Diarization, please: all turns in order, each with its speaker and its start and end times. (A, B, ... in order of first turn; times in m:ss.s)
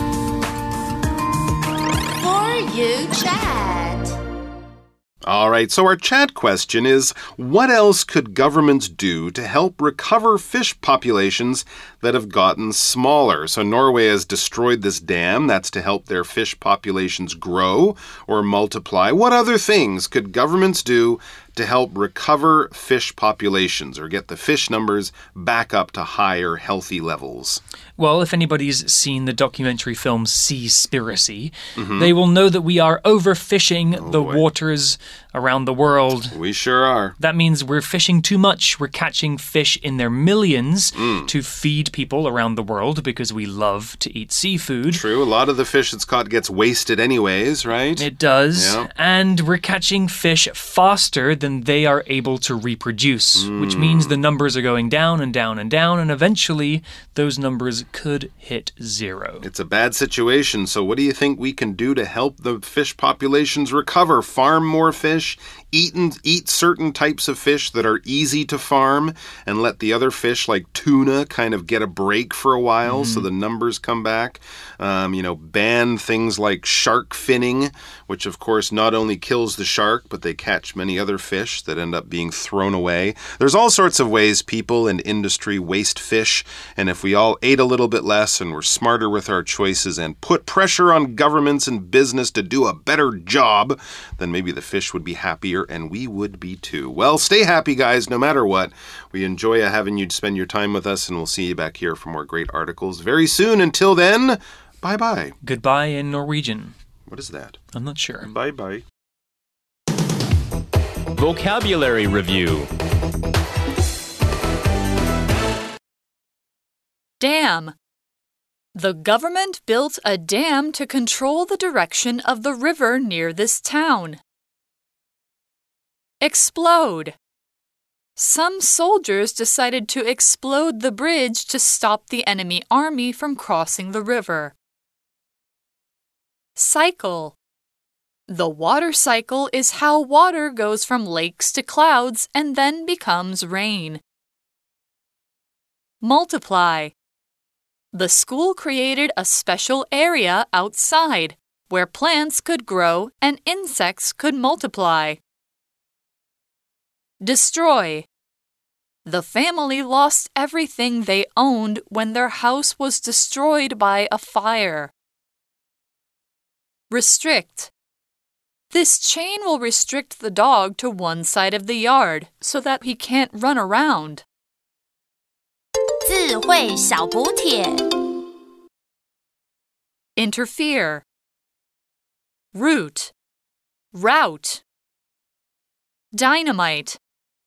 0:02.2-0:04.2 A
0:05.2-0:27.6 B
0:28.0-0:36.4 C
0:31.8-0:32.1 B
0:34.0-0:34.4 B
0:36.3-0:37.2 B
0:37.2-0:45.0 C
0:41.0-0:41.3 B
0:44.9-0:48.9 B
0:48.0-0:59.4 C
0:53.4-0:54.2 B
0:59.4-1:45.4 B
1:12.8-1:13.3 C
1:45.4-1:46.8 C
1:47.1-1:47.6 B
1:47.7-1:48.3 C
1:48.3-1:48.8 D
1:48.4-1:48.8 B
1:51.2-1:52.7 D
1:57.2-1:57.8 E
1:58.8-2:04.2 E
2:06.2-2:07.2 E
2:08.2-2:14.6 E
2:16.6-2:17.4 E
2:18.3-2:24.0 E
2:26.0-2:26.9 E
2:27.9-2:35.2 E
2:37.2-2:38.1 E
2:39.0-2:44.9 E
2:46.9-2:47.7 E
2:48.7-2:54.2 E
2:56.0-2:58.1 A
3:00.2-3:01.0 E
3:02.5-3:03.1 E
3:03.9-3:04.6 E
3:06.1-3:07.0 E